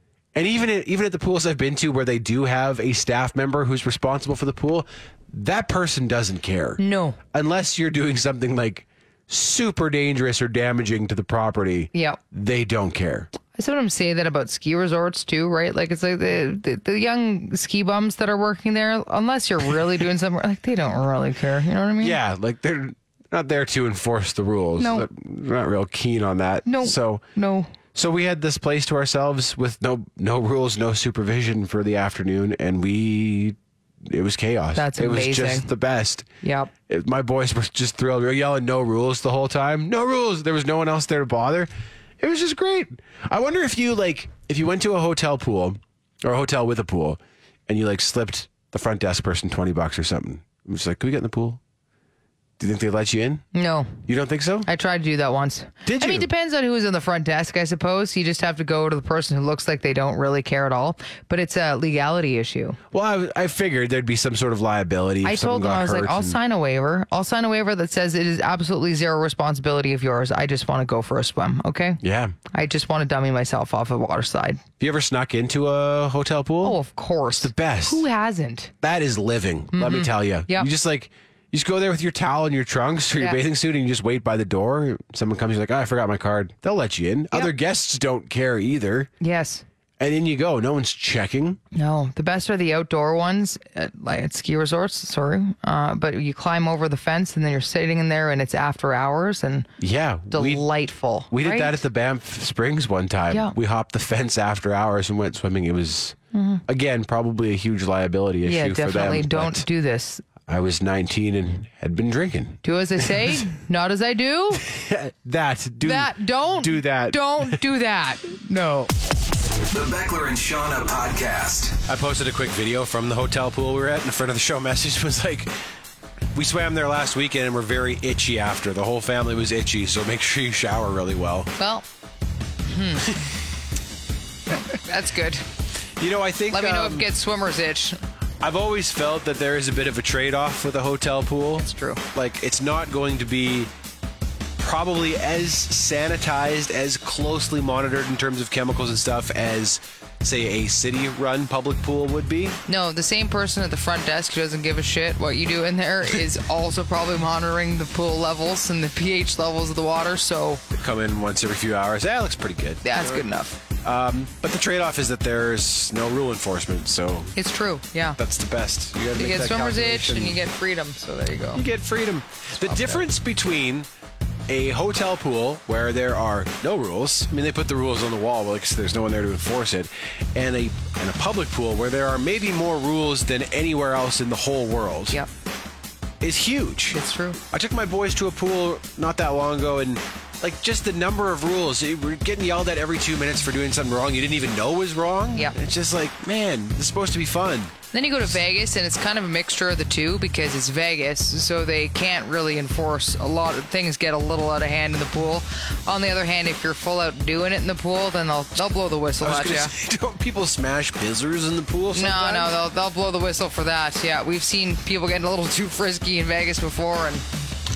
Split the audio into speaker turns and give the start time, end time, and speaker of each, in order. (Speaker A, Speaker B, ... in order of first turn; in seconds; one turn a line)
Speaker A: 0.3-6.8
Speaker B: 6.8-7.2
Speaker A: 7.3-13.3
Speaker B: 11.9-12.2
Speaker B: 13.5-22.2
Speaker A: 22.0-27.2
Speaker B: 24.8-25.1
Speaker B: 26.6-27.7
Speaker A: 27.9-36.3
Speaker B: 34.8-35.6
Speaker B: 36.4-36.7
Speaker A: 36.9-51.6
Speaker A: 52.6-53.5
Speaker B: 53.5-54.0
Speaker A: 54.0-54.7
Speaker B: 54.6-62.8
Speaker A: 55.8-56.3
Speaker A: 62.9-66.4
Speaker B: 65.2-72.0
Speaker A: 72.0-72.3
Speaker B: 72.5-74.6
Speaker A: 74.8-76.8
Speaker B: 76.6-78.7
Speaker A: 77.4-78.0
Speaker A: 78.8-89.1
Speaker B: 79.7-80.7
Speaker B: 89.2-89.6
Speaker A: 90.0-91.6
Speaker B: 91.7-99.7
Speaker A: 99.8-100.6
Speaker B: 100.3-101.8
Speaker A: 101.3-109.7
Speaker B: 106.3-106.6
Speaker B: 108.5-110.2
Speaker A: 110.5-113.4
Speaker B: 112.6-114.6
Speaker A: 114.6-117.6
Speaker B: 115.8-118.9
Speaker C: 119.7-121.8
Speaker A: 121.9-125.5
Speaker A: 126.3-131.5
Speaker B: 131.6-131.8
Speaker B: 132.6-133.3
Speaker B: 134.5-135.4
Speaker A: 136.0-137.1
Speaker B: 136.5-138.0
Speaker A: 138.4-143.7
Speaker B: 141.6-142.0
Speaker A: 144.6-152.6
Speaker B: 152.7-160.6
Speaker A: 160.7-163.2
Speaker B: 162.8-163.6
Speaker A: 163.8-167.3
Speaker B: 167.3-168.2
Speaker A: 168.2-170.4
Speaker B: 169.1-171.6
Speaker A: 171.5-173.9
Speaker B: 172.6-173.0
Speaker A: 174.5-185.2
Speaker A: 186.2-187.0
Speaker B: 186.9-187.4
Speaker A: 187.5-197.7
Speaker B: 197.9-209.7
Speaker A: 209.2-212.5
Speaker B: 211.9-217.2